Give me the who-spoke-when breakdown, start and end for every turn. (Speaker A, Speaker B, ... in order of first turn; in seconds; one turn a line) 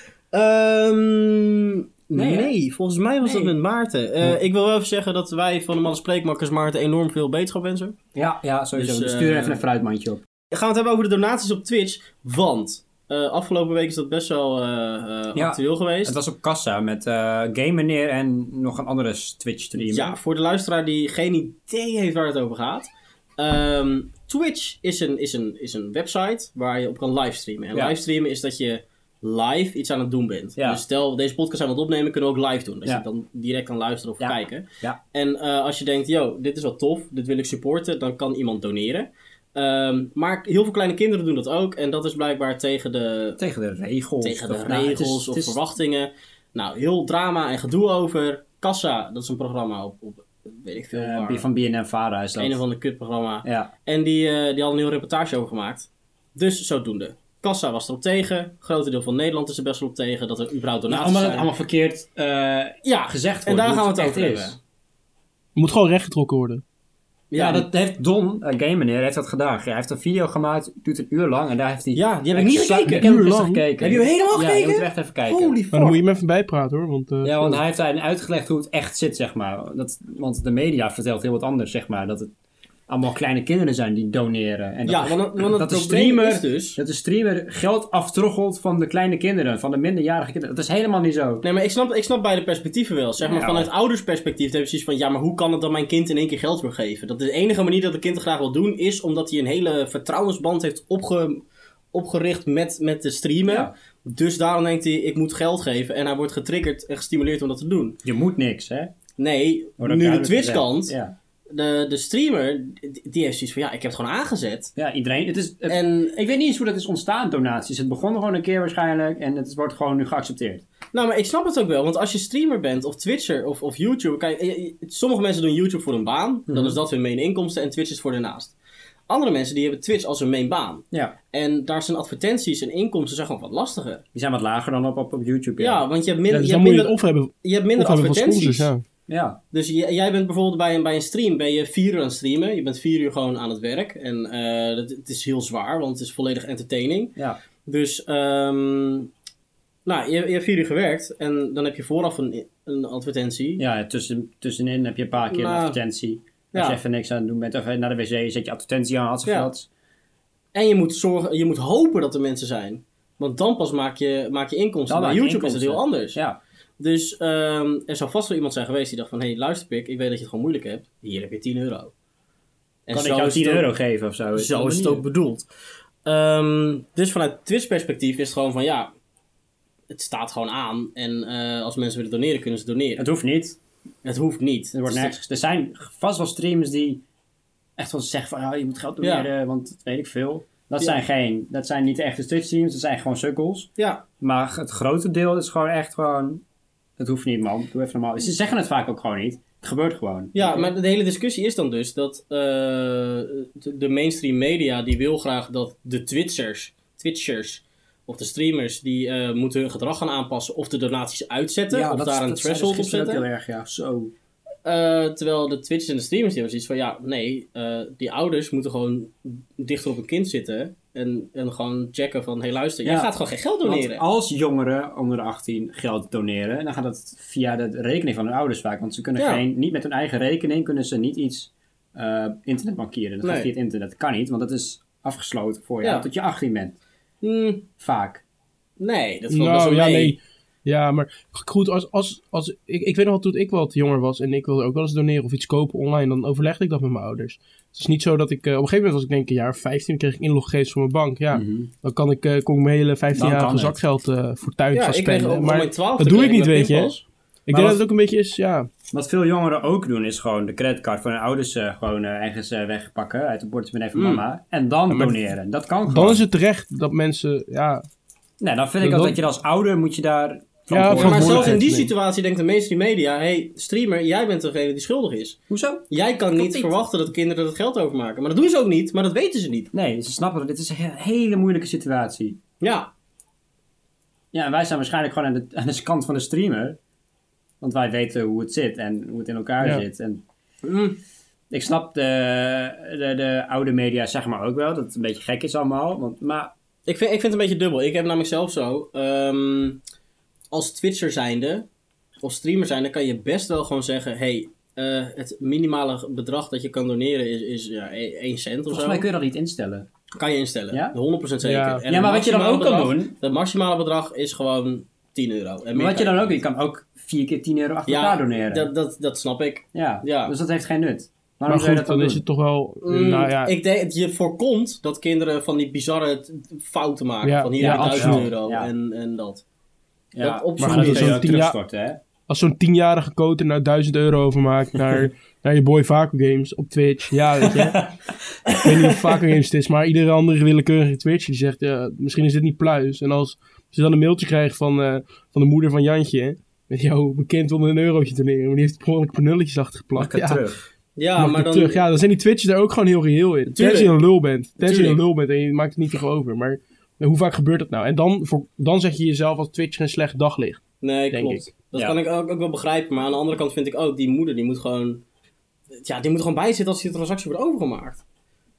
Speaker A: 0.3-8.0
Speaker B: 2.1-2.5
Speaker B: 8.1-10.2
Speaker A: 8.7-9.6
Speaker A: 10.5-16.1
Speaker B: 15.3-20.2
Speaker A: 19.8-43.4
Speaker B: 30.6-30.8
Speaker B: 34.2-35.0
Speaker B: 43.4-45.6
Speaker A: 44.2-51.5
Speaker B: 50.9-52.6
Speaker A: 52.4-61.5
Speaker B: 53.4-53.7
Speaker B: 60.9-64.5
Speaker A: 62.8-64.6
Speaker C: 65.5-66.6
Speaker A: 67.3-67.7
Speaker B: 67.4-75.5
Speaker A: 71.9-73.0
Speaker C: 72.9-73.6
Speaker A: 73.8-76.0
Speaker C: 75.7-77.6
Speaker B: 77.2-82.3
Speaker B: 82.9-91.4
Speaker A: 84.8-86.8
Speaker A: 91.4-108.0
Speaker B: 93.2-93.7
Speaker B: 103.5-103.7
Speaker B: 108.0-108.9
Speaker A: 109.2-110.9
Speaker B: 109.8-111.1
Speaker A: 111.5-114.7
Speaker B: 114.8-120.6
Speaker A: 115.7-116.1
Speaker A: 120.9-128.6
Speaker B: 126.5-126.8
Speaker A: 129.1-134.0
Speaker B: 134.1-135.8
Speaker A: 135.6-138.7
Speaker C: 136.3-138.8
Speaker B: 139.1-139.4
Speaker A: 139.5-149.1
Speaker A: 149.8-153.6
Speaker B: 153.6-159.7
Speaker A: 155.3-155.8
Speaker A: 156.5-156.8
Speaker A: 160.5-166.2
Speaker B: 164.9-166.4
Speaker A: 166.8-171.9
Speaker A: 172.9-173.7
Speaker B: 172.9-175.1
Speaker A: 174.3-175.5
Speaker A: 176.0-178.9
Speaker A: 179.9-183.0
Speaker B: 183.0-183.6
Speaker A: 184.0-185.2
Speaker B: 184.7-187.0
Speaker B: 187.8-196.4
Speaker A: 189.0-189.3
Speaker A: 193.8-194.0
Speaker B: 197.0-200.7
Speaker A: 200.3-213.2
Speaker B: 211.7-214.1
Speaker A: 214.6-224.0
Speaker B: 222.8-236.8
Speaker A: 229.2-229.4
Speaker A: 233.2-233.5
Speaker A: 237.2-237.7
Speaker B: 237.8-238.2
Speaker A: 238.8-240.2
Speaker C: 239.3-256.9
Speaker B: 251.3-251.7
Speaker B: 253.1-253.8
Speaker A: 254.7-257.0
Speaker C: 257.5-258.7
Speaker B: 257.5-257.8
Speaker B: 258.9-266.2
Speaker A: 263.9-264.2
Speaker C: 264.9-265.2
Speaker C: 265.9-267.8
Speaker B: 268.4-271.6
Speaker C: 268.8-269.2
Speaker C: 270.7-271.9
Speaker A: 270.9-279.7
Speaker B: 275.5-275.8
Speaker B: 276.3-276.7
Speaker B: 279.7-282.4
Speaker A: 282.6-282.9
Speaker B: 284.3-286.8
Speaker B: 287.6-290.2
Speaker A: 290.6-291.0
Speaker B: 291.5-296.5
Speaker A: 296.9-299.8
Speaker A: 300.5-301.6
Speaker A: 302.2-309.1
Speaker B: 308.7-309.9
Speaker A: 310.1-316.4
Speaker B: 310.7-310.9
Speaker C: 311.4-311.8
Speaker B: 311.9-313.1
Speaker B: 315.7-318.7
Speaker A: 317.9-320.3
Speaker B: 319.7-322.2
Speaker C: 321.5-323.5
Speaker A: 322.8-329.4
Speaker C: 327.2-328.3
Speaker B: 327.6-328.7
Speaker B: 330.1-332.0
Speaker A: 330.2-331.3
Speaker C: 330.6-331.6
Speaker C: 332.3-337.8
Speaker B: 337.6-337.9
Speaker C: 338.5-350.4
Speaker B: 349.9-350.6
Speaker A: 351.0-351.8
Speaker C: 351.2-361.5
Speaker A: 353.5-353.9
Speaker A: 354.6-355.0
Speaker A: 360.8-365.0
Speaker A: 365.8-368.0